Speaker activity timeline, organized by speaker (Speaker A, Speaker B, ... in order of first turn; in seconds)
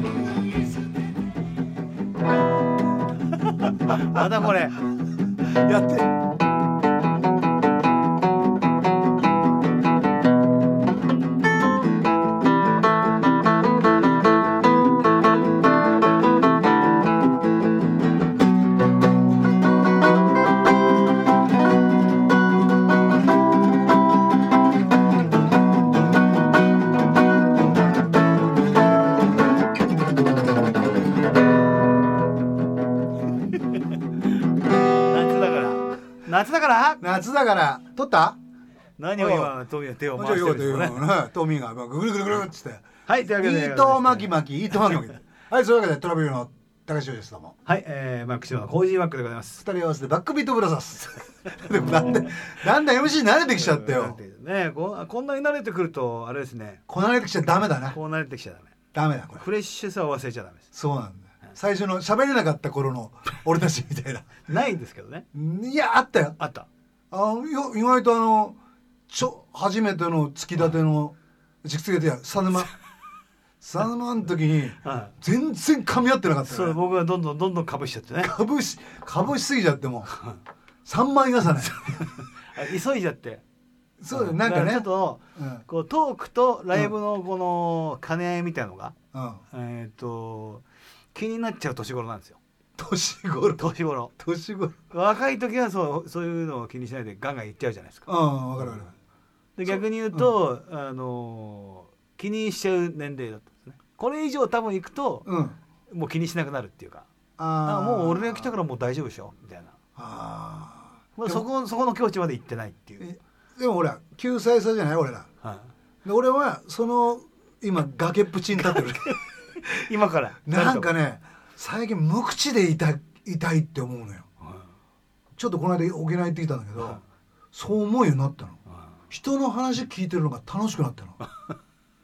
Speaker A: 3.7-4.8, 33.5-34.0, 35.0-37.0, 39.0-41.1, 43.1-45.0, 47.6-49.6, 53.5-56.8, 57.8-58.7, 59.3-60.6, 64.5-65.2, 66.4-66.7, 74.8-75.1, 76.4-78.3, 81.7-83.4, 84.1-88.9, 89.5-92.4, 93.6-94.1, 94.9-98.8, 99.5-105.3, 105.9-107.1, 107.6-109.7, 111.2-113.1, 115.4-115.7, 118.6-120.9
Speaker B: 5.6-6.0, 37.0-38.4, 39.1-39.5, 40.1-42.9, 43.4-47.5, 49.6-54.2, 56.9-58.0, 58.9-59.4, 60.7-64.3, 65.3-66.4, 67.1-68.5, 69.1-72.7, 73.6-76.8, 78.2-80.1, 80.8-82.0, 84.0-85.6, 89.1-89.4, 92.8-94.8, 98.1-98.9, 99.7-100.3, 105.2-105.6, 107.4-108.5, 110.0-111.4, 113.0-115.3, 116.0-119.2, 120.4-124.2, 125.4-127.0, 127.5-128.6, 129.1-131.2